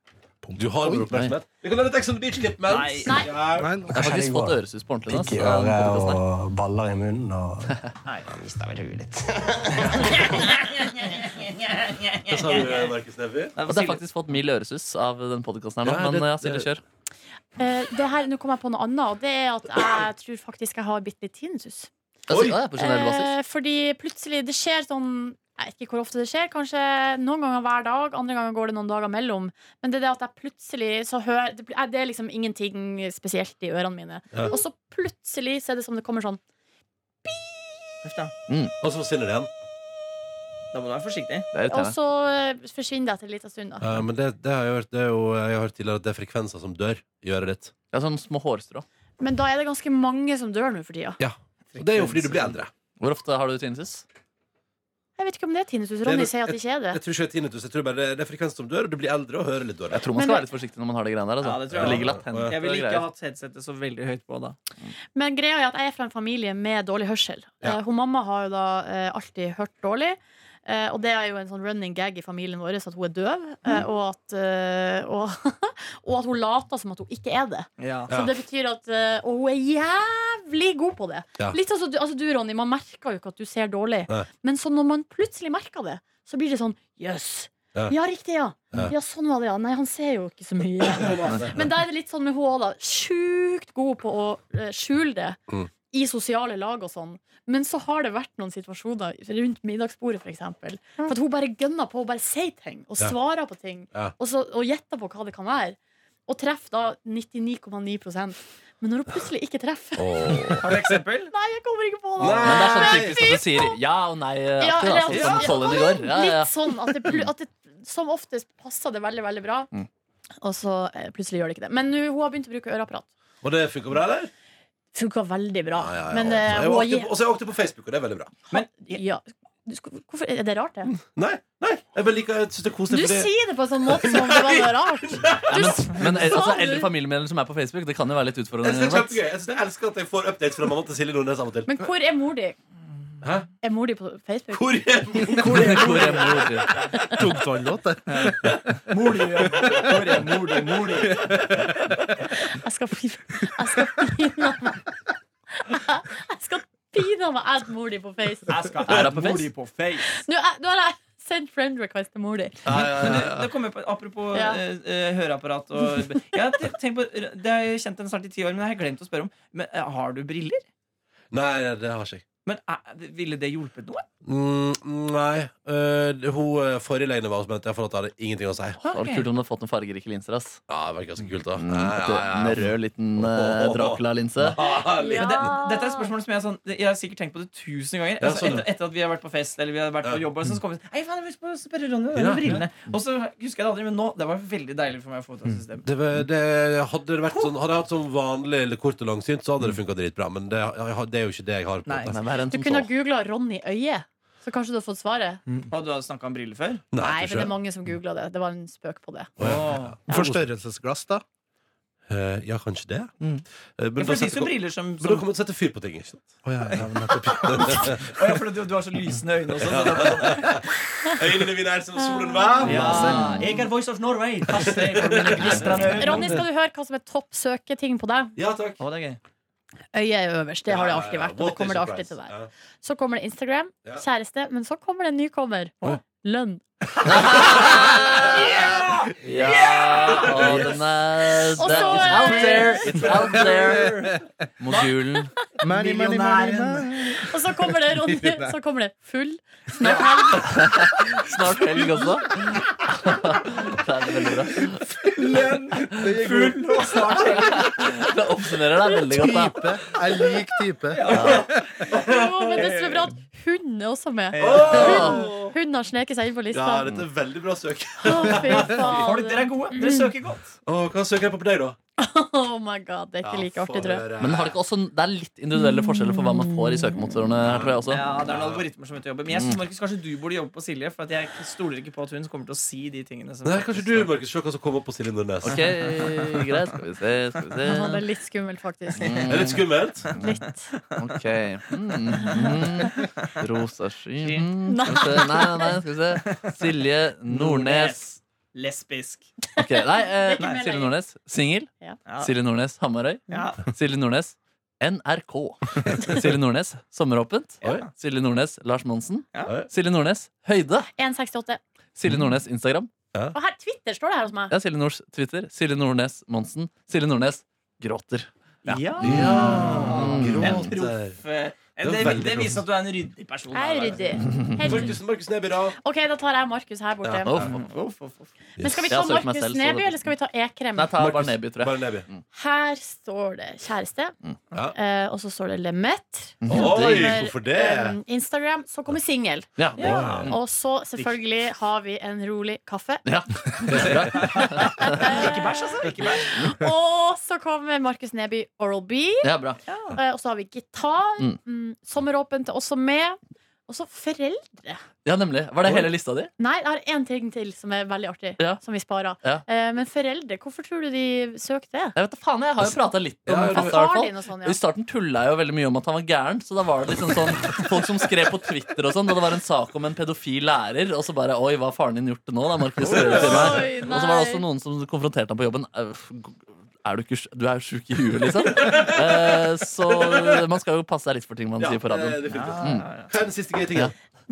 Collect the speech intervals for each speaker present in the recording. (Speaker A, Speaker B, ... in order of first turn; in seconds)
Speaker A: 0.4-1.1, 3.6-4.1, 147.1-148.8, 149.5-151.6, 210.1-211.2, 216.4-218.0, 243.6-244.2, 245.6-248.6, 255.1-257.2, 259.1-261.7
Speaker B: 0.6-3.9, 12.3-13.6, 15.8-16.7, 22.3-22.6, 34.3-34.6, 38.8-39.5, 43.8-47.7, 51.2-52.7, 56.0-60.0, 61.7-62.6, 78.1-78.3, 91.2-91.6, 110.0-110.7, 112.2-113.2, 123.4-124.3, 125.8-128.4, 131.0-133.3, 133.8-135.8, 138.6-141.7, 143.2-143.5, 144.5-146.5, 151.5-152.0, 162.7-163.5, 171.3-172.2, 174.2-178.8, 180.7-185.6, 188.2-188.7, 192.1-192.7, 195.8-202.3, 206.9-207.6, 209.4-210.0, 212.1-213.1, 213.8-218.1, 219.6-223.4, 224.5-226.4, 228.4-228.8, 230.7-232.5, 237.2-240.7, 241.6-242.4, 261.9-262.7, 264.4-265.6, 266.5-269.1, 270.6-271.8, 273.2-274.6, 277.4-278.7, 283.4-285.8, 289.3-290.2, 307.6-307.9, 309.4-309.7, 319.0-321.2, 321.8-322.6, 324.6-325.8, 327.0-327.6, 328.6-329.0, 331.0-332.1, 336.5-338.0, 339.8-340.3, 343.7-344.2, 363.3-363.8, 372.8-373.8, 378.4-380.4, 381.6-383.9
Speaker C: 1.1-1.4, 4.0-6.2, 13.7-16.8, 22.3-23.3, 38.5-38.7, 41.5-42.0, 47.9-48.9, 53.0-54.0, 59.9-63.1, 112.4-117.3, 135.5-139.2, 145.4-146.7, 158.9-159.5, 178.8-180.6, 181.6-184.6, 202.1-202.9, 237.1-238.3, 239.2-245.3, 250.4-254.8, 257.4-259.6, 261.1-261.4, 264.6-265.3, 274.2-278.0, 279.3-279.6, 285.4-288.1, 288.9-289.6, 290.9-298.1, 299.6-310.9, 312.0-312.9, 314.5-320.7, 324.2-324.9, 327.2-327.6, 328.9-330.1, 330.8-332.2, 336.4-337.3, 339.6-340.4, 343.1-345.2, 349.2-349.6, 355.0-356.3, 362.0-382.9
Speaker D: 2.7-3.2, 10.0-11.3, 12.0-12.9, 13.6-14.0, 38.0-38.3, 40.7-41.5, 51.7-52.6, 61.4-64.6, 77.8-78.1, 110.6-111.3, 115.1-115.6, 128.5-129.0, 148.1-151.2, 158.5-160.2, 162.8-170.6, 172.5-174.1, 178.8-179.3, 184.6-195.9, 201.9-202.2, 205.7-206.8, 209.4-210.0, 214.0-215.3, 218.0-220.7, 222.6-226.4, 228.8-229.2, 237.5-237.8, 238.3-240.6, 242.2-243.9, 245.7-247.1, 255.2-258.1, 260.9-263.1, 264.3-265.4, 268.7-270.5, 277.9-284.1, 285.5-286.4, 290.3-291.2, 292.4-293.3, 294.2-294.5, 296.3-296.6, 297.2-299.3, 303.3-303.6, 307.6-307.9, 318.6-324.2, 327.4-328.3, 339.8-340.3, 345.0-346.4, 349.7-350.0, 382.3-383.1
Speaker E: 3.0-3.4, 17.6-21.9, 22.8-36.4, 37.2-37.9, 41.6-44.0, 49.2-51.2, 55.2-57.0, 60.1-60.5, 65.2-95.4, 95.9-110.6, 111.3-113.8, 114.6-119.7, 120.4-123.1, 124.9-127.1, 128.5-130.9, 132.9-136.9, 141.7-142.6, 143.6-147.3, 152.4-154.8, 155.6-159.0, 160.0-163.1, 164.3-164.6, 184.6-186.1, 202.5-205.4, 207.0-209.4, 210.1-210.4, 222.0-223.6, 225.9-228.4, 229.9-238.8, 241.6-243.5, 247.2-251.1, 261.9-267.0, 268.0-270.1, 272.0-274.1, 275.6-277.0, 287.6-289.3, 290.1-290.7, 292.2-293.0, 294.7-295.8, 299.6-300.9, 311.0-311.6, 313.3-314.5, 323.5-325.0, 325.8-327.4, 328.6-331.0, 332.3-334.2, 334.7-349.3, 349.9-354.8, 356.4-362.0, 363.4-364.6, 372.9-374.4
Speaker F: 3.9-10.4